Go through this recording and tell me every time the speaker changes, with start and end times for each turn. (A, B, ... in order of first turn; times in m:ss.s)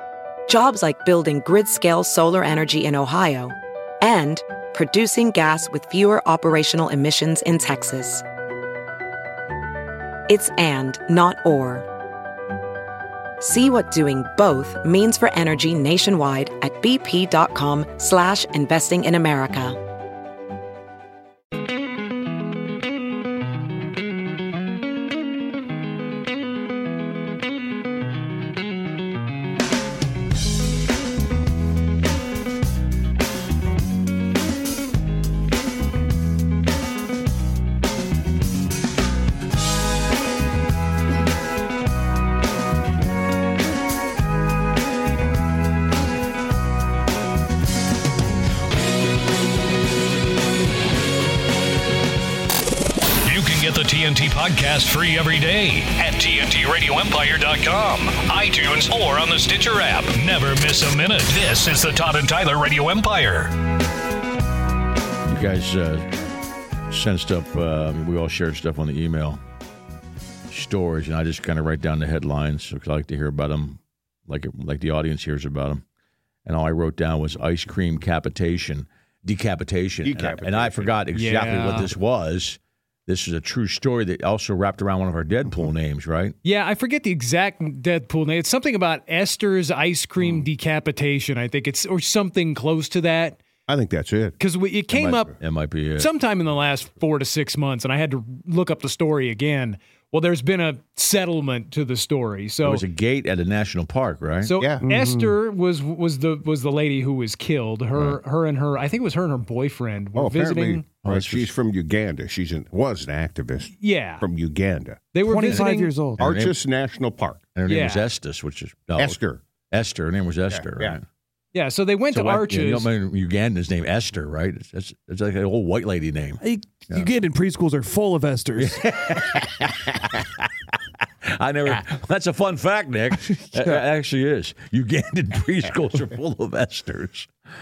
0:00.5-0:08.2 A
0:10.3-0:11.8 A
0:13.4-0:19.8 A
0:53.2-1:03.5 B
1:05.3-1:06.1 C
1:06.9-1:09.4 C
1:10.5-1:15.8 C
1:16.4-1:26.4 C
1:20.0-1:21.0 D
1:21.1-1:21.9 E
1:26.4-1:33.4 E
1:33.7-1:34.4 D
1:34.4-1:35.4 E
1:34.9-1:36.1 C
1:36.0-1:42.8 E
1:42.6-1:44.5 C
1:44.4-1:50.9 E
1:44.8-1:45.3 F
1:50.2-1:55.0 D
1:51.0-1:51.5 C
1:53.8-1:54.2 E
1:55.1-1:55.9 E
1:55.2-1:56.2 F
1:56.2-1:56.5 C
1:56.2-1:57.4 D
1:57.5-1:59.2 C
1:57.7-1:58.0 E
1:59.0-1:59.4 D
1:59.7-2:01.0 C
2:00.5-2:01.0 D
2:01.5-2:02.9 E
2:02.1-2:07.0 C
2:06.4-2:08.8 F
2:08.6-2:10.5 C
2:11.3-2:17.3 C
2:13.4-2:13.8 F